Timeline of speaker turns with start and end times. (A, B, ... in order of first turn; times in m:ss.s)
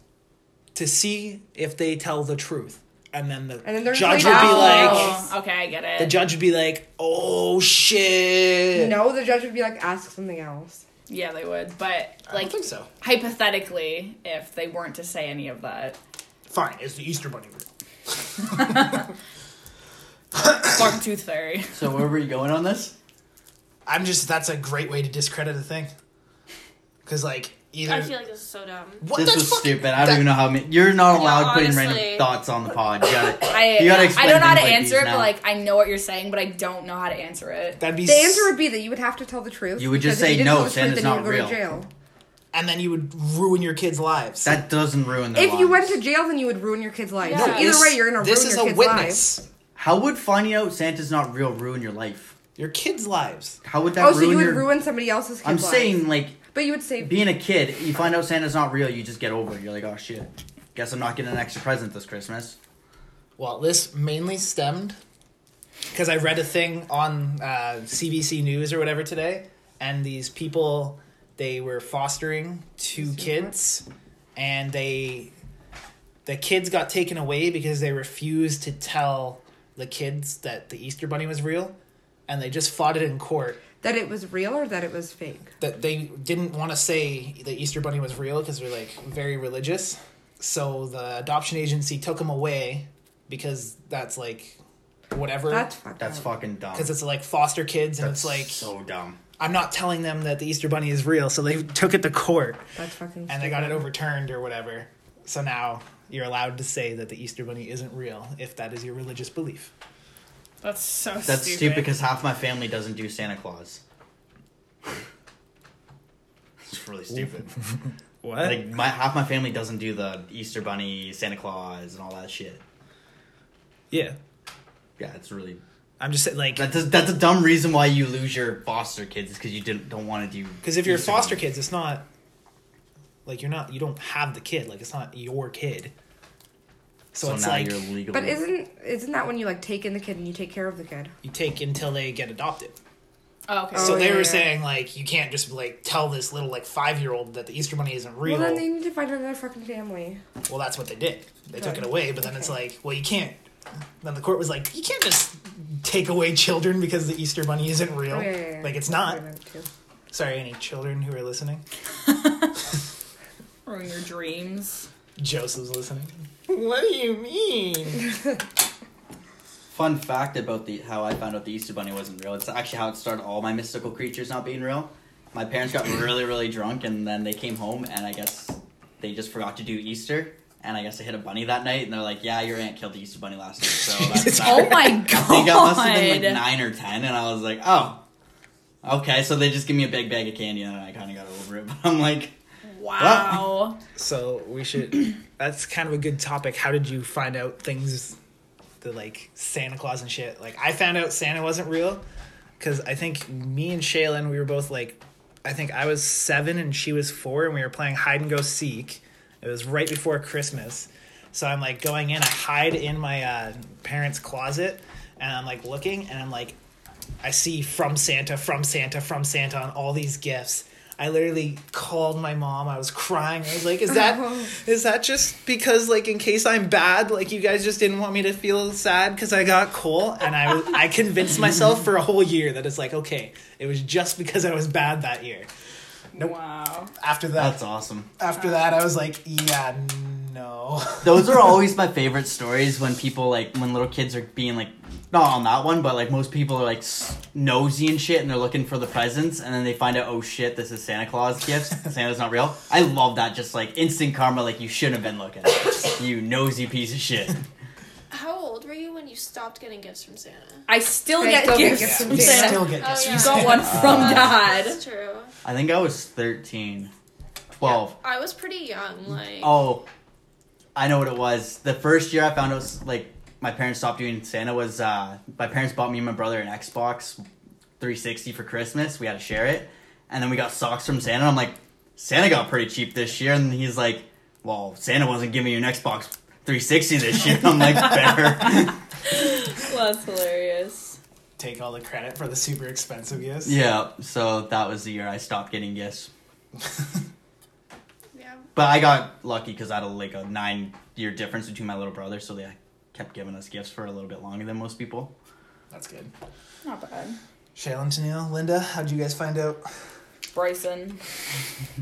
0:00.8-0:05.2 A
0:03.6-0:05.2 B
0:04.2-0:06.2 C
0:06.0-0:09.0 A
0:08.8-0:10.8 B
0:11.1-0:16.0 C
0:12.3-0:12.9 A
0:16.5-0:17.7 A
0:18.5-0:18.8 A
0:20.4-0:21.8 C
0:21.7-0:23.0 D
0:23.9-0:25.9 A
0:27.0-0:28.2 A
0:27.9-0:29.1 E
0:29.0-0:30.3 A
0:29.1-0:35.3 D
0:31.1-0:32.3 E
0:33.4-0:37.8 C
0:37.8-0:38.5 A
0:38.0-0:41.9 B
0:39.8-0:41.6 D
0:42.5-0:44.6 A
0:44.4-0:46.0 D
0:45.3-0:49.3 B
0:47.2-0:47.6 C
0:47.3-0:47.6 E
0:47.3-0:49.4 A
0:49.8-0:52.3 D
0:52.6-0:53.6 A
0:53.6-0:54.7 D
0:54.0-0:57.2 B
0:55.4-0:56.4 D
0:57.0-1:02.6 D
1:03.4-1:05.0 A
1:05.9-1:13.8 A
1:13.0-1:13.5 B
1:14.4-1:15.3 A
1:16.3-1:21.7 A
1:22.3-1:23.6 A
1:23.8-1:25.5 B
1:25.6-1:34.6 A
1:35.1-1:35.7 A
1:35.5-1:36.3 B
1:36.0-1:37.0 D
1:36.8-1:38.7 A
1:38.0-1:39.2 D
1:39.4-1:42.6 A
1:42.8-1:43.9 B
1:43.3-1:49.7 A
1:50.6-1:51.9 C
1:51.2-1:53.8 D
1:56.6-1:57.5 D
1:58.2-1:58.6 A
1:58.4-2:02.6 D
2:03.9-2:04.2 A
2:05.0-2:05.6 D
2:06.0-2:06.7 A
2:06.6-2:11.4 D
2:10.6-2:12.0 A
2:13.3-2:15.9 A
2:17.1-2:17.8 A
2:17.2-2:18.4 D
2:18.1-2:21.1 B
2:21.2-2:22.7 A
2:23.5-2:24.4 C
2:23.7-2:24.6 B
2:23.7-2:28.7 A
2:28.2-2:30.2 B
2:30.5-2:33.4 A
2:31.6-2:32.5 B
2:34.0-2:39.2 A
2:38.1-2:39.7 B
2:40.1-2:41.6 A
2:43.7-2:44.9 C
2:45.2-2:48.1 A
2:49.7-3:08.0 D
3:03.7-3:05.1 A
3:04.3-3:06.4 C
3:08.8-3:12.3 D
3:12.7-3:13.8 C
3:13.0-3:13.6 D
3:14.0-3:18.2 A
3:18.8-3:22.0 A
3:22.6-3:36.6 A
3:37.2-3:55.5 A
3:56.2-3:56.9 C
3:57.0-3:57.6 A
3:57.4-3:58.1 D
3:58.2-4:01.4 A
4:01.0-4:17.4 D
4:18.1-4:20.7 E
4:20.7-4:24.8 C
4:21.2-4:22.8 B
4:21.6-4:23.9 A
4:22.7-4:25.3 E
4:23.6-4:24.4 D
4:25.4-4:26.9 D
4:27.6-4:28.0 D
4:27.6-4:29.6 E
4:29.4-4:29.9 D
4:30.8-4:37.2 D
4:37.8-4:48.8 D
4:48.0-4:51.0 C
4:51.4-4:53.6 A
4:53.4-4:56.1 D
4:58.1-4:58.4 E
4:58.6-5:05.1 D
5:05.7-5:06.1 A
5:06.6-5:07.2 C
5:07.6-5:09.6 A
5:10.3-5:11.0 C